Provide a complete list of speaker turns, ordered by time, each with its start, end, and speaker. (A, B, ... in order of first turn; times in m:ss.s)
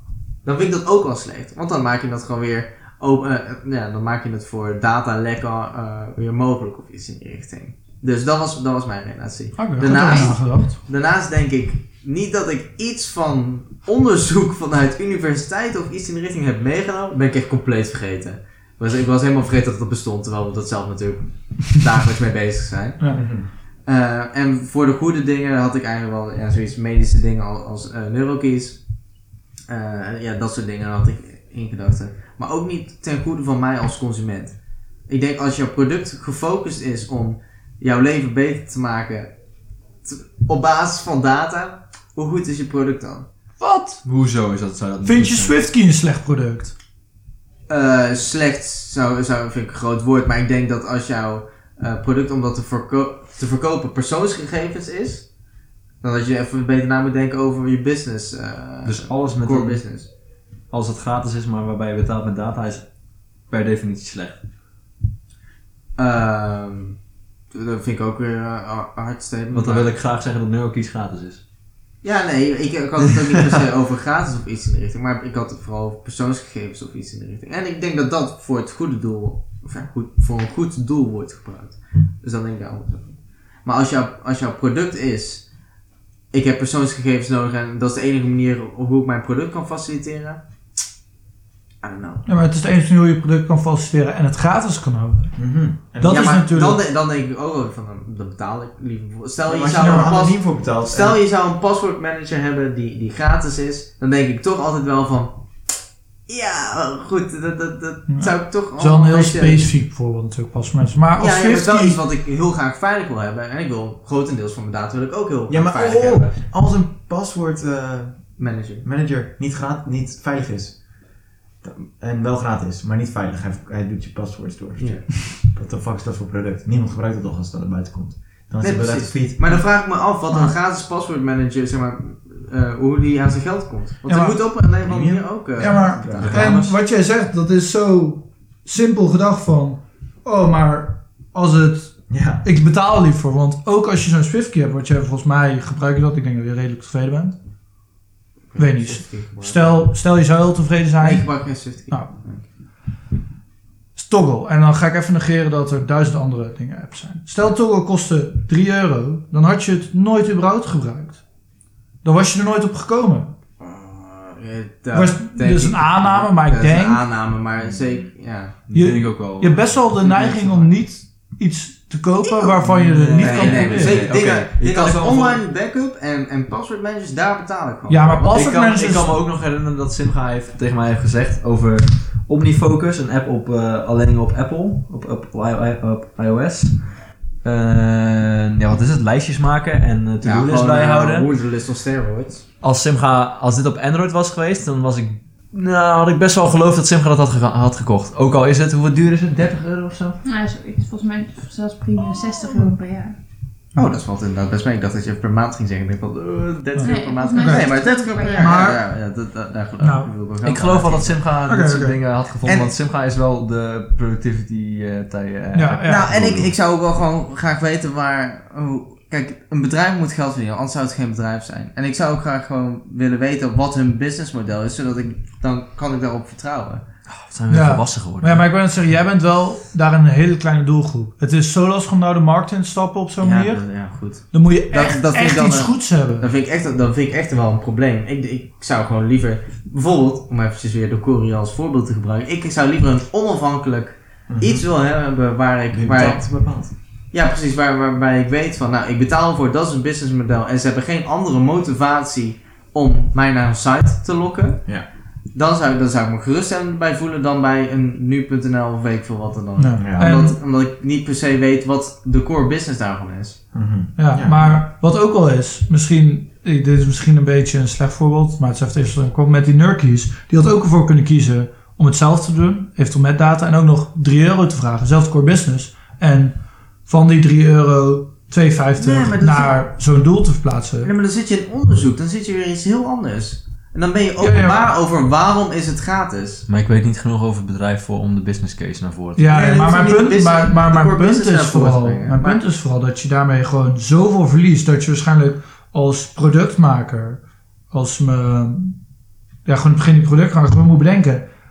0:00.4-0:23.2 A
0:09.6-0:10.8 B
0:23.0-0:23.2 B
0:23.1-0:23.5 C
0:23.9-0:28.8 A
0:29.7-0:34.6 A
0:35.1-0:39.3 A
0:40.0-0:43.3 A
0:43.6-0:44.0 B
0:44.0-0:45.5 D
0:45.0-0:46.7 B
0:47.7-0:55.3 A
0:56.0-1:00.1 A
0:58.8-0:59.8 D
1:00.7-1:02.9 D
1:03.5-1:04.4 D
1:06.0-1:07.0 A
1:07.5-1:09.9 A
1:09.5-1:11.4 D
1:12.0-1:25.4 A
1:26.3-1:30.4 A
1:31.8-1:32.3 A
1:32.3-1:35.4 B
1:35.4-1:36.4 C
1:36.0-1:36.8 B
1:36.0-1:45.3 A
1:39.5-1:41.2 C
1:39.8-1:40.1 B
1:46.3-1:49.7 A
1:48.1-1:52.0 B
1:51.2-1:56.4 A
1:55.5-2:00.8 C
1:58.4-1:58.9 A
2:01.6-2:09.5 C
2:04.8-2:05.1 A
2:08.6-2:16.6 A
2:14.1-2:14.4 B
2:14.8-2:16.6 C
2:15.6-2:27.4 B
2:16.2-2:16.7 D
2:22.1-2:22.4 C
2:28.5-2:29.8 A
2:28.6-2:32.1 B
2:31.0-2:32.4 A
2:34.0-2:41.2 B
2:42.0-2:43.3 B
2:43.6-2:48.6 A
2:44.9-2:47.0 B
2:48.7-2:49.7 D
2:48.7-2:54.1 B
2:50.0-2:50.7 A
2:52.6-2:55.4 D
2:53.2-2:58.4 A
2:57.9-2:59.2 B
2:58.3-3:06.9 D
3:07.4-3:11.3 D
3:10.2-3:12.4 A
3:12.6-3:20.2 D
3:20.2-3:23.2 E
3:23.7-3:31.2 A
3:26.8-3:27.7 B
3:26.8-3:28.7 E
3:28.4-3:28.8 B
3:29.8-3:30.1 B
3:30.4-3:36.5 D
3:31.5-3:32.0 B
3:32.4-3:32.7 A
3:35.5-3:36.1 B
3:35.9-3:46.8 A
3:47.1-3:48.4 D
3:47.5-3:53.6 B
3:53.2-4:06.4 A
3:54.3-3:56.3 B
4:04.3-4:04.6 C
4:05.7-4:06.7 C
4:07.1-4:14.8 A
4:15.3-4:23.4 A
4:19.6-4:20.4 B
4:19.8-4:20.1 C
4:23.5-4:24.6 C
4:24.0-4:40.9 B
4:38.8-4:39.6 A
4:40.8-4:46.4 A
4:44.2-4:44.7 B
4:46.5-4:49.3 D
4:49.2-4:57.2 B
4:49.3-4:52.4 A
4:57.7-4:58.8 B
4:59.4-5:01.3 B